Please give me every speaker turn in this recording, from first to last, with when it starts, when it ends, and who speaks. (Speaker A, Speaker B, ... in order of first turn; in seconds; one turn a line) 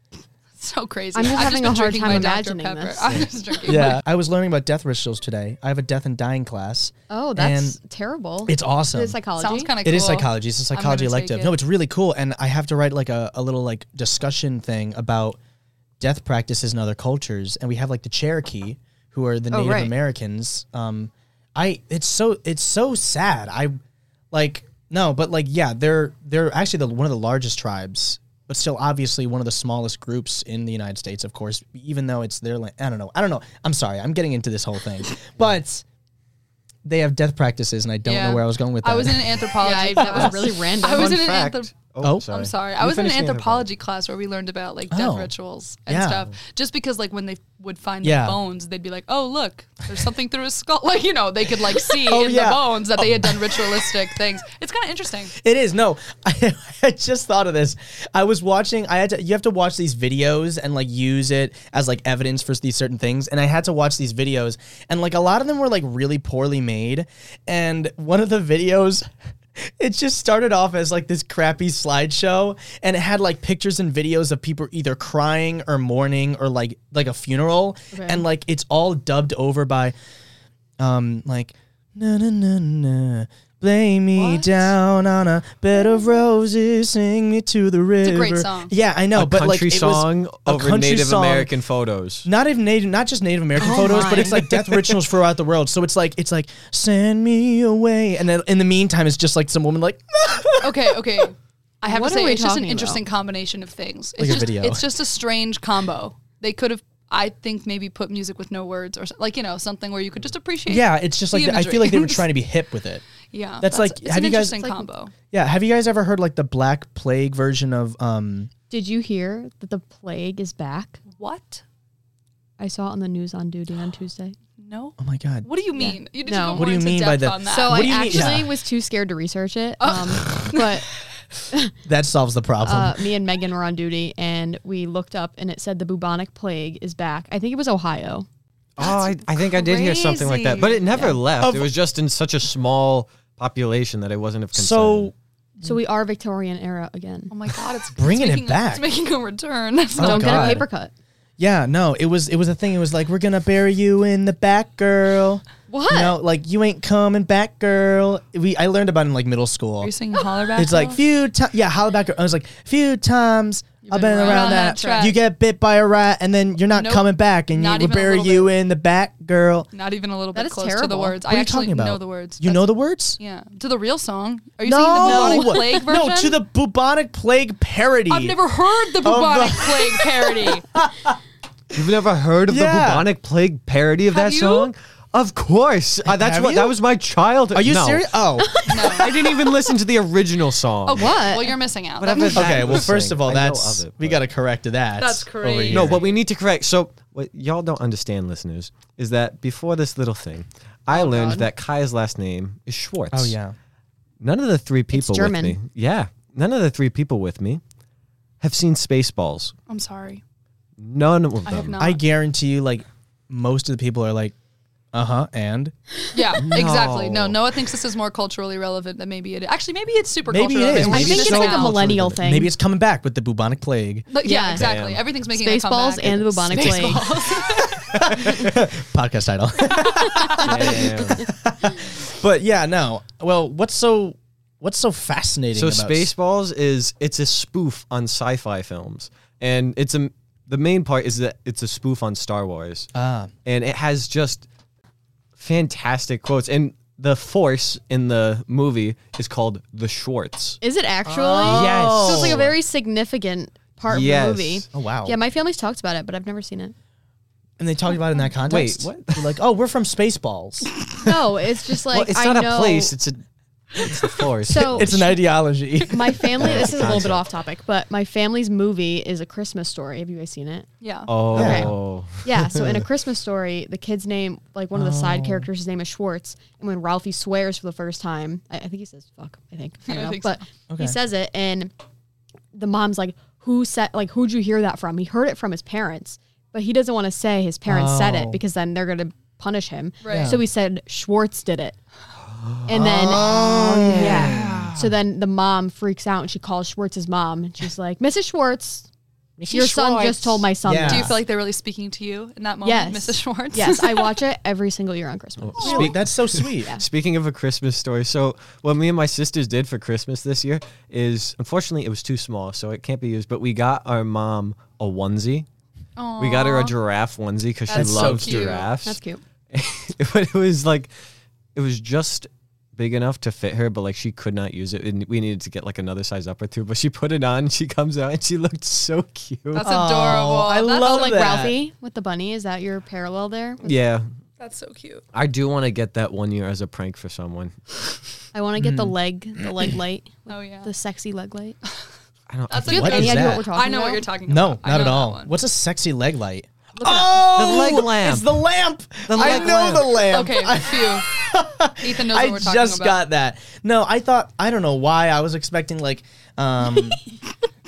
Speaker A: 0.6-4.0
Speaker B: 1.1-3.1
Speaker C: 3.7-7.8
Speaker B: 7.1-9.7
Speaker C: 8.5-9.2
Speaker A: 9.4-11.6
Speaker C: 9.8-15.4
Speaker C: 16.0-23.8
Speaker B: 19.5-19.9
Speaker C: 24.3-35.8
Speaker C: 36.9-40.3
Speaker A: 38.0-41.7
Speaker B: 39.6-41.3
Speaker D: 40.8-43.7
Speaker C: 42.0-42.3
Speaker A: 42.3-55.3
Speaker C: 44.9-45.3
Speaker C: 45.9-46.3
Speaker C: 48.0-48.4
Speaker C: 51.9-54.0
Speaker C: 55.4-79.9
Speaker B: 77.9-78.2
Speaker C: 80.8-91.5
Speaker A: 84.2-84.4
Speaker A: 88.0-88.7
Speaker D: 89.2-92.3
Speaker C: 92.2-101.0
Speaker B: 93.6-94.5
Speaker A: 100.6-112.3
Speaker B: 101.8-103.0
Speaker C: 104.2-104.8
Speaker C: 110.7-113.0
Speaker A: 113.3-115.1
Speaker C: 113.6-114.6
Speaker C: 115.3-118.5
Speaker B: 118.7-121.0
Speaker A: 121.2-121.6
Speaker B: 122.6-124.4
Speaker A: 124.6-128.3
Speaker C: 125.0-125.5
Speaker B: 125.8-126.7
Speaker C: 126.5-128.5
Speaker B: 127.5-130.9
Speaker A: 129.8-130.8
Speaker C: 131.8-133.0
Speaker B: 132.6-138.3
Speaker D: 138.8-145.1
Speaker A: 138.8-140.9
Speaker B: 140.9-141.2
Speaker C: 141.4-141.7
Speaker C: 144.5-145.8
Speaker B: 145.6-147.3
Speaker A: 147.3-150.5
Speaker C: 147.9-148.8
Speaker C: 150.0-150.7
Speaker B: 150.0-150.9
Speaker D: 150.1-150.6
Speaker C: 151.4-159.9
Speaker B: 155.7-156.2
Speaker A: 159.8-161.0
Speaker C: 160.6-169.7
Speaker B: 163.9-165.1
Speaker A: 164.2-165.2
Speaker A: 166.7-168.5
Speaker A: 169.7-172.7
Speaker B: 170.3-171.2
Speaker C: 171.3-173.2
Speaker A: 173.2-176.4
Speaker C: 174.6-178.4
Speaker B: 175.0-175.8
Speaker A: 178.1-180.7
Speaker C: 179.0-181.2
Speaker D: 181.7-188.1
Speaker C: 182.5-183.1
Speaker A: 184.1-184.7
Speaker C: 186.1-186.8
Speaker C: 187.5-188.8
Speaker B: 188.4-189.3
Speaker A: 188.7-189.2
Speaker D: 188.8-191.3
Speaker A: 190.9-192.9
Speaker B: 190.9-191.6
Speaker D: 192.0-194.2
Speaker C: 192.3-196.0
Speaker A: 195.0-196.2
Speaker D: 195.7-203.3
Speaker B: 200.9-201.4
Speaker A: 201.0-201.4
Speaker C: 203.1-203.6
Speaker D: 204.2-207.6
Speaker B: 204.9-205.6
Speaker D: 208.4-209.5
Speaker A: 209.7-210.2
Speaker D: 210.8-211.8
Speaker A: 211.5-212.0
Speaker C: 211.8-214.3
Speaker C: 214.9-215.7
Speaker A: 216.1-221.8
Speaker D: 216.4-217.4
Speaker C: 220.3-224.1
Speaker D: 220.8-222.2
Speaker B: 220.8-222.5
Speaker A: 224.1-228.0
Speaker B: 224.2-224.7
Speaker D: 224.6-225.0
Speaker B: 225.3-227.2
Speaker C: 226.5-236.1
Speaker A: 230.0-230.7
Speaker D: 230.4-231.3
Speaker D: 235.5-242.9
Speaker C: 242.9-243.3
Speaker D: 243.4-244.5
Speaker D: 245.4-252.5
Speaker B: 250.6-256.7
Speaker C: 251.4-252.5
Speaker D: 253.9-254.7
Speaker C: 254.7-255.2
Speaker C: 257.6-260.7
Speaker D: 258.5-259.3
Speaker B: 261.0-262.9
Speaker D: 261.9-263.2
Speaker D: 263.7-265.1
Speaker B: 264.5-265.1
Speaker C: 264.6-267.1
Speaker B: 265.9-270.7
Speaker D: 266.4-267.2
Speaker A: 270.8-271.1
Speaker D: 271.1-272.7
Speaker B: 271.2-281.7
Speaker C: 271.3-271.7
Speaker C: 274.7-275.5
Speaker A: 279.9-280.4
Speaker C: 280.7-280.9
Speaker B: 282.5-291.8
Speaker C: 287.7-288.4
Speaker A: 290.0-290.4
Speaker C: 290.1-290.4
Speaker D: 292.3-294.9
Speaker B: 292.7-293.4
Speaker C: 292.7-294.7
Speaker B: 293.9-298.9
Speaker D: 299.4-300.5
Speaker B: 299.5-301.2
Speaker C: 300.6-301.2
Speaker A: 300.9-304.1
Speaker B: 302.6-306.0
Speaker D: 305.4-315.5
Speaker C: 305.6-306.8
Speaker A: 316.0-316.8
Speaker D: 316.2-319.0
Speaker A: 317.7-318.7
Speaker C: 317.7-318.7
Speaker B: 318.8-319.2
Speaker D: 319.5-320.9
Speaker D: 321.6-329.8
Speaker A: 329.5-331.2
Speaker C: 329.6-331.6
Speaker B: 330.8-333.8
Speaker D: 333.6-334.1
Speaker A: 334.4-335.1
Speaker D: 335.1-337.6
Speaker B: 338.3-341.6
Speaker C: 338.6-338.9
Speaker A: 340.3-340.7
Speaker D: 342.3-343.2
Speaker A: 342.5-345.3
Speaker C: 342.7-343.5
Speaker B: 342.7-344.1
Speaker C: 344.3-357.0
Speaker B: 346.8-347.3
Speaker D: 347.2-348.3
Speaker D: 349.1-350.0
Speaker A: 349.2-351.1
Speaker A: 351.8-353.0